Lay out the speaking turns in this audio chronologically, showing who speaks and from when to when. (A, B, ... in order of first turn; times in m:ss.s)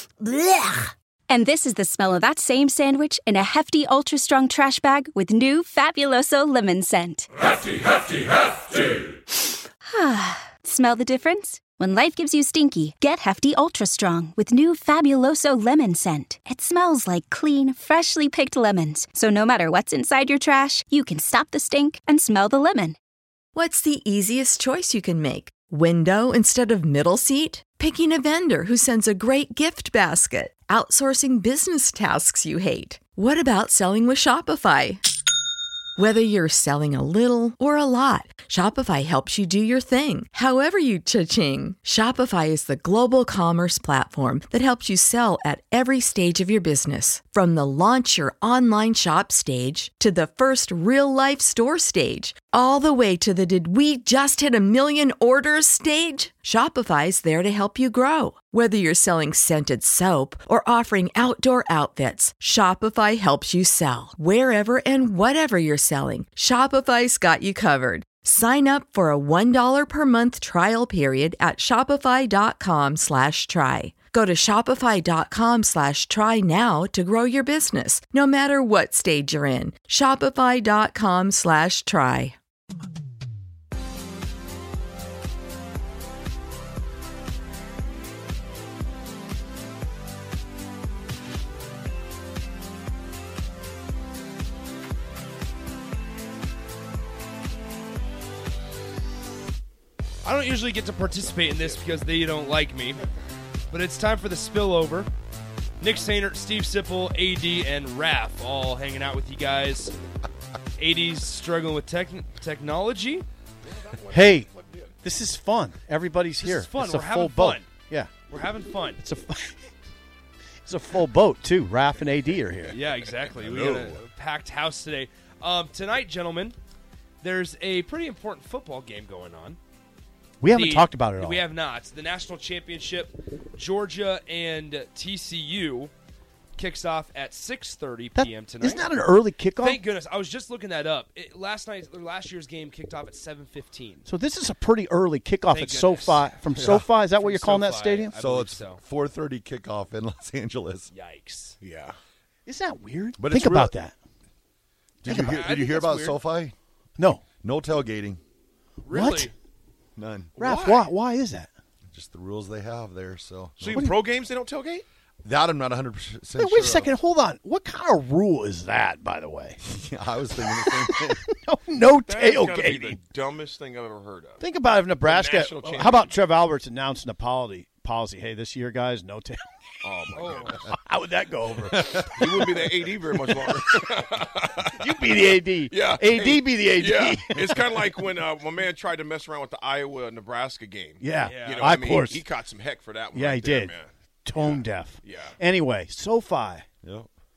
0:01.3-0:09.1 A
0:09.8-0:23.0 A
0:23.6-0:35.0 B
0:36.0-1:22.4 B
1:40.2-1:43.0 C
1:43.7-1:45.1 C
1:45.8-1:50.0 C
1:50.8-1:53.3 C
1:53.8-1:54.9 D
1:54.1-1:54.5 E
1:55.0-1:58.1 E
1:56.4-1:57.7 C
1:58.3-1:59.0 C
1:59.0-1:59.7 E
2:00.6-2:02.8 E
2:02.7-2:06.6 C
2:03.4-2:04.0 F
2:07.2-2:09.6 C
2:10.4-2:11.5 E
2:10.5-2:15.9 C
2:16.6-2:18.9 C
2:18.2-2:19.8 E
2:19.6-2:24.1 C
2:24.0-2:28.2 E
2:25.5-2:28.8 C
2:28.2-2:30.9 F
2:30.9-2:31.6 C
2:31.6-2:32.0 D
2:32.5-2:34.0 E
2:33.2-2:33.7 F
2:35.0-2:36.6 F
2:35.1-2:35.4 E
2:35.1-2:36.2 C
2:37.0-2:37.2 E
2:37.4-2:38.2 F
2:38.8-2:39.3 C
2:38.9-2:39.3 E
2:40.0-2:40.4 F
2:40.4-2:41.5 E
2:40.4-2:40.9 D
2:41.9-2:43.8 F
2:43.6-2:44.8 D
2:45.2-2:47.0 F
2:46.4-2:49.6 E
2:49.6-2:51.2 F
2:50.5-2:53.0 E
2:52.1-2:54.4 D
2:54.4-2:59.4 E
2:55.0-2:56.2 D
2:59.8-3:00.8 D
3:00.1-3:00.6 C
3:00.7-3:03.6 E
3:01.9-3:15.4 D
3:04.7-3:08.1 E
3:11.0-3:12.2 E
3:11.2-3:11.7 C
3:13.1-3:16.6 E
3:16.8-3:17.1 F